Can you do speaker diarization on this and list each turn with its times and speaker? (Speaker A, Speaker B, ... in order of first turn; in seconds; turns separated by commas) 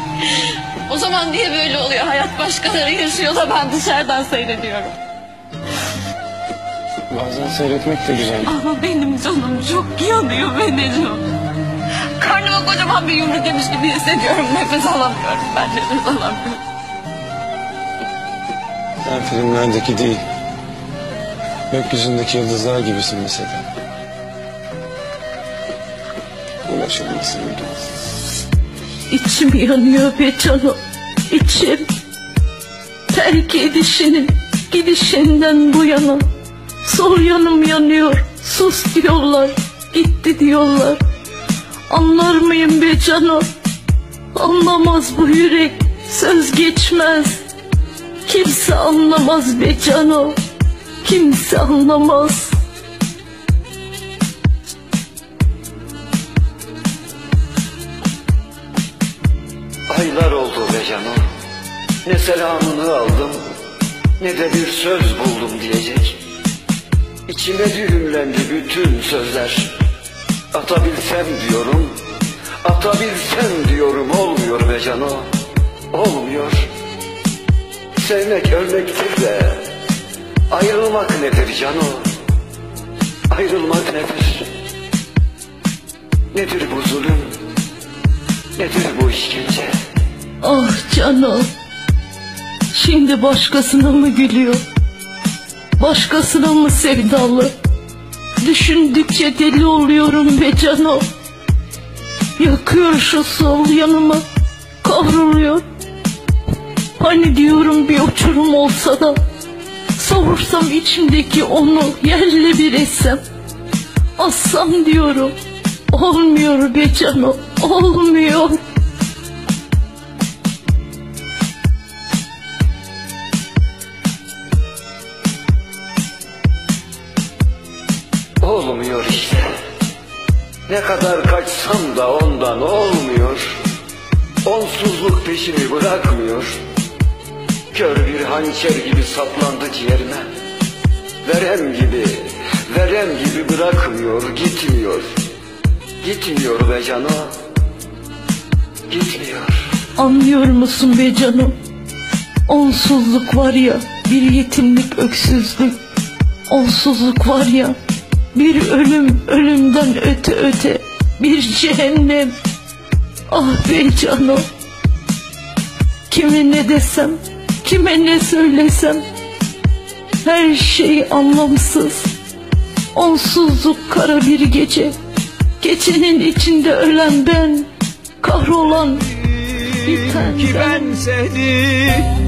Speaker A: 0.2-5.0, Speaker B: 7.1-8.5, Speaker A: 8.4-11.2, Speaker A: 12.2-16.6, Speaker B: 19.0-20.2, Speaker B: 21.7-23.7, Speaker B: 26.7-27.8, Speaker C: 29.1-31.9, Speaker C: 33.1-36.2, Speaker C: 36.8-41.0, Speaker C: 41.9-43.5, Speaker C: 44.3-47.4, Speaker C: 48.2-50.4, Speaker C: 51.0-52.6, Speaker D: 59.9-61.2, Speaker D: 62.0-63.4, Speaker D: 64.2-66.2, Speaker D: 67.3-69.8, Speaker D: 70.5-72.0, Speaker D: 72.6-75.3, Speaker D: 75.9-76.7, Speaker D: 78.0-79.7, Speaker D: 80.5-82.1, Speaker D: 83.3-84.5, Speaker D: 86.3-87.4, Speaker D: 88.6-89.7, Speaker C: 90.4-91.5, Speaker C: 92.7-94.6, Speaker C: 95.8-97.5, Speaker C: 98.4-101.0, Speaker C: 102.4-104.2, Speaker C: 104.8-105.6, Speaker C: 107.0-109.2, Speaker C: 110.0-113.2, Speaker C: 114.2-115.3, Speaker C: 115.9-118.6, Speaker D: 128.4-129.5, Speaker D: 130.7-133.6, Speaker D: 134.4-136.6, Speaker D: 137.7-140.3, Speaker D: 141.2-145.2, Speaker D: 146.0-147.3, Speaker D: 148.9-149.7, Speaker C: 150.0-151.6, Speaker C: 152.5-155.8, Speaker C: 156.5-157.8, Speaker C: 158.3-162.4, Speaker C: 163.3-164.4, Speaker C: 166.1-169.1, Speaker C: 170.2-172.1, Speaker C: 172.9-175.0, Speaker C: 175.6-177.7, Speaker C: 178.2-179.1, Speaker E: 179.2-182.1, Speaker C: 179.8-181.0